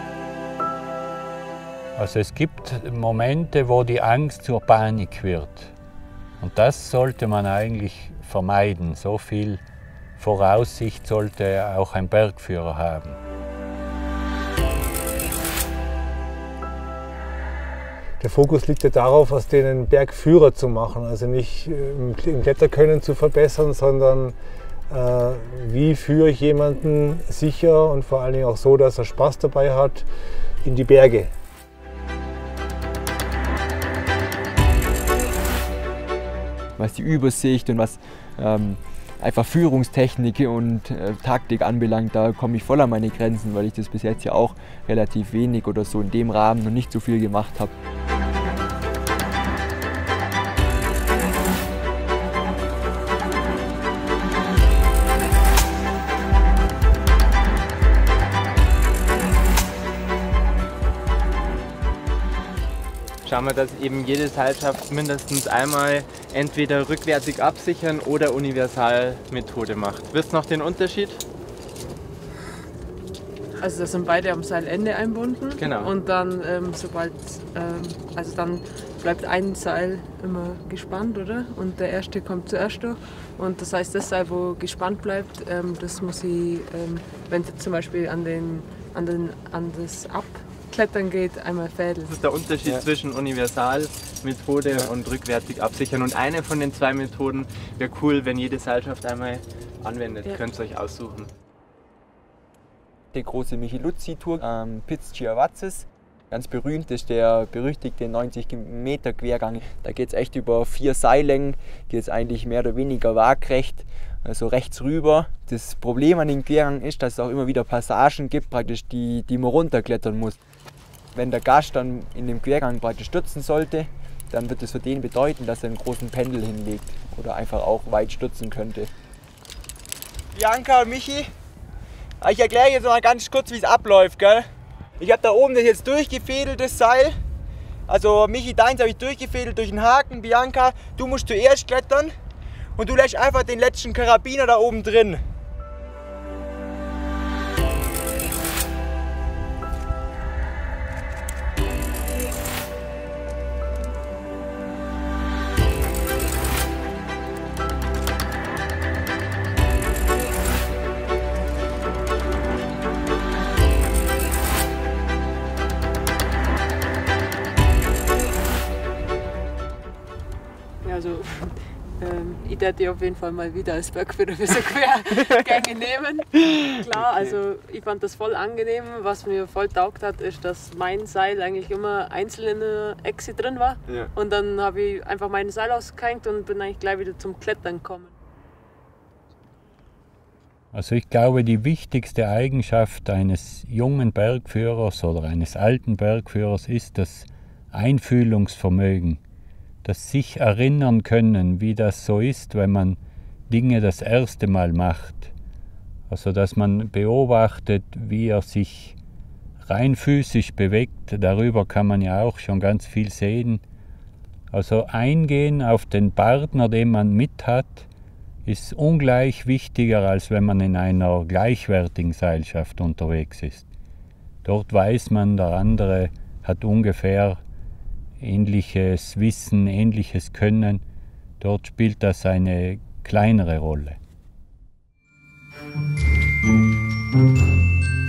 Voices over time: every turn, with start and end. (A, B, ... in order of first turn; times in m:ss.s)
0:02.0-0:05.7 A
0:06.4-0:09.6 A
0:10.2-0:13.2 A
0:18.2-0:24.4 B
0:24.9-0:30.0 B
0:30.6-0:31.3 B
0:36.8-0:47.7 C
1:03.2-1:11.2 D
1:13.6-1:32.2 E
1:15.6-1:15.9 D
1:32.0-1:41.3 D
1:43.1-2:00.4 C
2:01.1-2:08.9 C
2:10.3-2:11.3 C
2:12.2-2:14.5 C
2:15.0-2:17.1 C
2:17.9-2:22.1 C
2:22.8-2:25.2 C
2:50.8-3:08.1 E
3:10.7-3:19.2 A
3:19.8-3:25.3 A
3:26.1-3:29.0 A
3:29.6-3:33.6 A
3:34.5-3:37.9 A
3:38.4-3:43.6 A
3:44.4-3:47.4 A
3:48.2-3:50.8 A
3:51.4-3:54.0 A